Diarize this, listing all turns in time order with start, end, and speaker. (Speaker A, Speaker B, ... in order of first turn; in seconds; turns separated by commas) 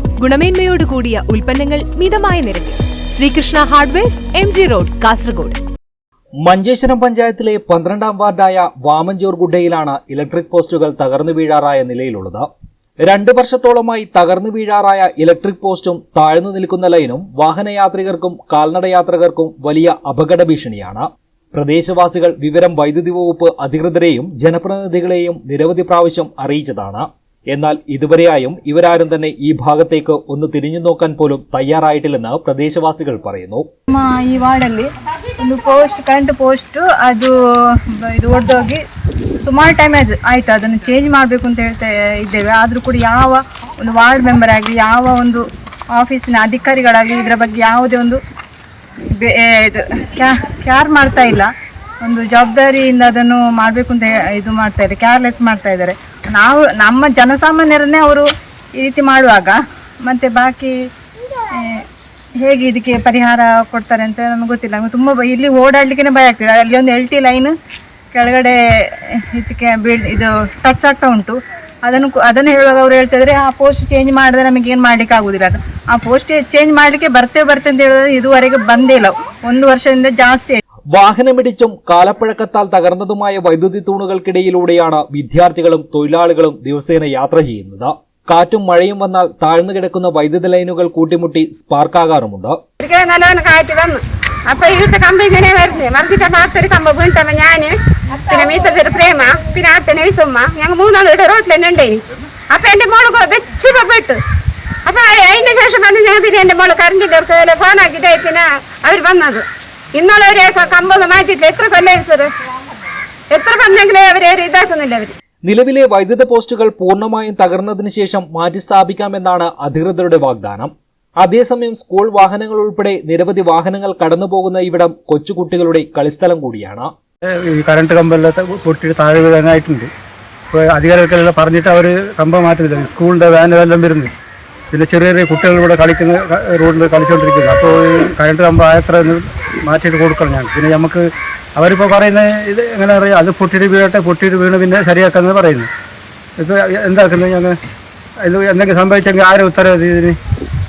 Speaker A: 0.2-5.6, Speaker B: 6.4-12.5, Speaker B: 13.0-33.7, Speaker C: 33.9-38.8, Speaker C: 39.4-45.4, Speaker C: 45.9-48.2, Speaker C: 49.1-51.5, Speaker C: 52.0-58.2, Speaker C: 58.8-60.7, Speaker C: 61.5-61.8, Speaker C: 62.4-67.5, Speaker C: 68.1-80.6, Speaker B: 80.9-92.6, Speaker D: 92.8-104.2, Speaker D: 104.8-112.3, Speaker D: 113.3-115.1, Speaker B: 115.5-126.9, Speaker E: 127.5-129.9, Speaker E: 130.5-134.1, Speaker E: 134.7-141.0, Speaker E: 141.6-145.7, Speaker E: 146.4-147.5, Speaker E: 148.2-150.2